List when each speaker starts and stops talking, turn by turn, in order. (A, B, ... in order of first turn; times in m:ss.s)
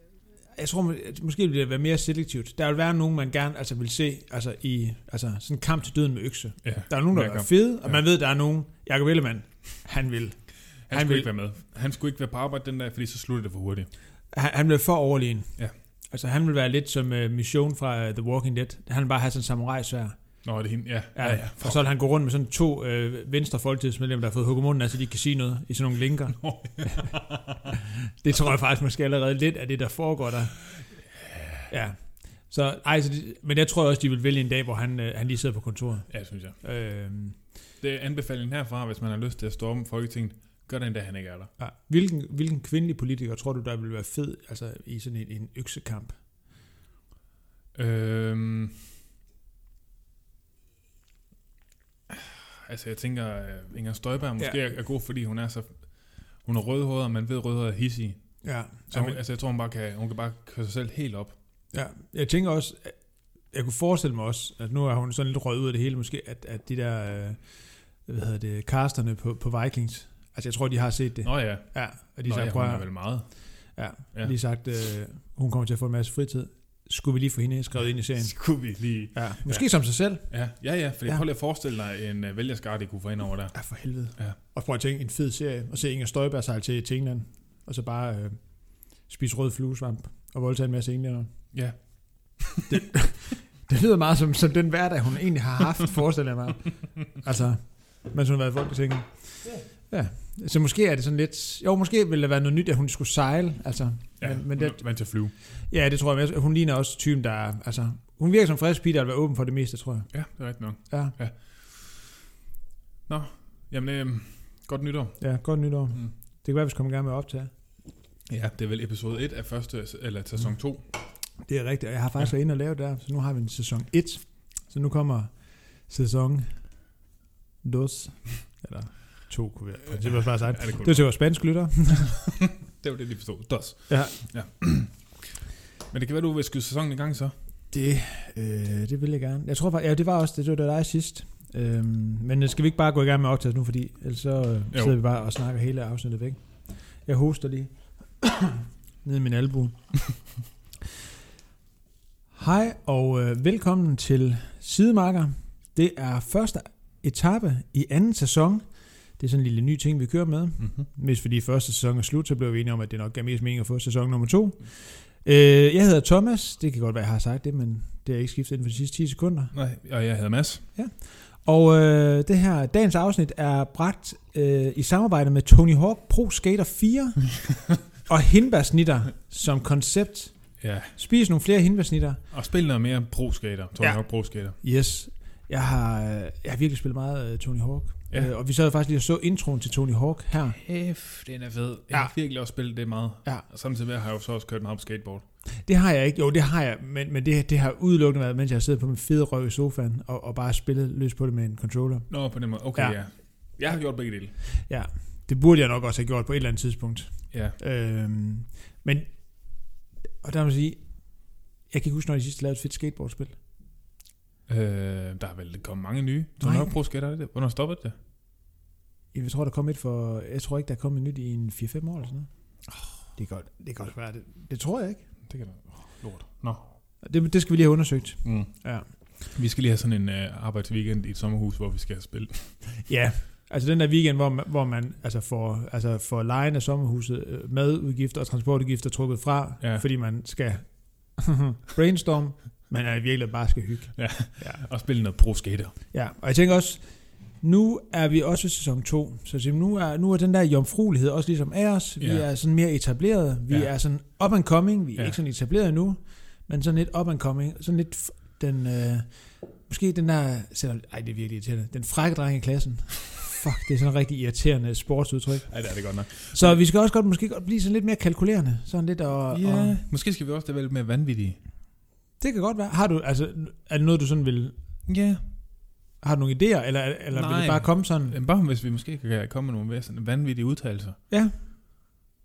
0:00.5-0:11.3 A
0:06.6-0:08.0 B
0:10.9-0:13.9 B
0:14.3-0:15.6 A
0:16.1-0:20.2 A
0:20.4-0:21.8 B
0:21.2-0:27.2 A
0:26.4-0:27.7 B
0:28.2-0:30.6 A
0:31.7-0:37.4 A
0:36.1-0:36.6 B
0:37.8-0:41.5 B
0:41.6-0:46.2 A
0:47.7-0:48.8 B
0:52.1-0:58.4 B
0:58.4-0:59.2 A
0:58.9-1:01.4 B
1:01.7-1:20.4 A
1:11.2-1:13.4 B
1:17.8-1:24.4 B
1:23.5-1:31.3 A
1:31.5-1:32.7 B
1:32.7-1:44.9 A
1:44.2-1:45.3 B
1:45.7-1:50.1 A
1:50.1-1:52.2 B
1:50.9-1:51.2 A
1:53.1-1:55.2 B
1:55.2-1:57.5 A
1:58.3-2:00.8 B
2:01.4-2:06.5 A
2:07.6-2:12.2 A
2:09.9-2:11.1 B
2:12.3-2:17.3 B
2:13.9-2:14.2 A
2:17.7-2:26.4 A
2:27.0-2:30.0 A
2:32.3-2:49.5 A
2:49.5-2:50.6 B
2:50.8-2:57.4 A
2:58.0-3:00.4 A
3:00.6-3:01.0 B
3:01.0-3:02.2 A
3:02.3-3:04.6 B
3:03.8-3:10.6 A
3:10.5-3:15.2 B
3:15.6-3:22.1 A
3:22.1-3:24.3 B
3:22.7-3:23.0 A
3:24.7-3:33.4 A
3:34.5-3:38.0 B
3:36.4-3:36.7 A
3:39.1-3:42.3 A
3:43.2-3:45.0 A
3:45.3-3:46.6 B
3:47.0-3:48.9 A
3:48.2-3:48.5 B
3:49.2-3:52.6 B
3:52.9-4:04.6 A
3:59.6-3:59.8 B
4:04.0-4:05.8 B
4:05.9-4:29.8 A
4:12.0-4:12.3 B
4:25.5-4:26.6 B
4:29.3-4:31.4 B
4:32.2-4:34.5 A
4:34.9-4:35.2 B
4:36.0-4:38.2 A
4:37.1-4:41.0 B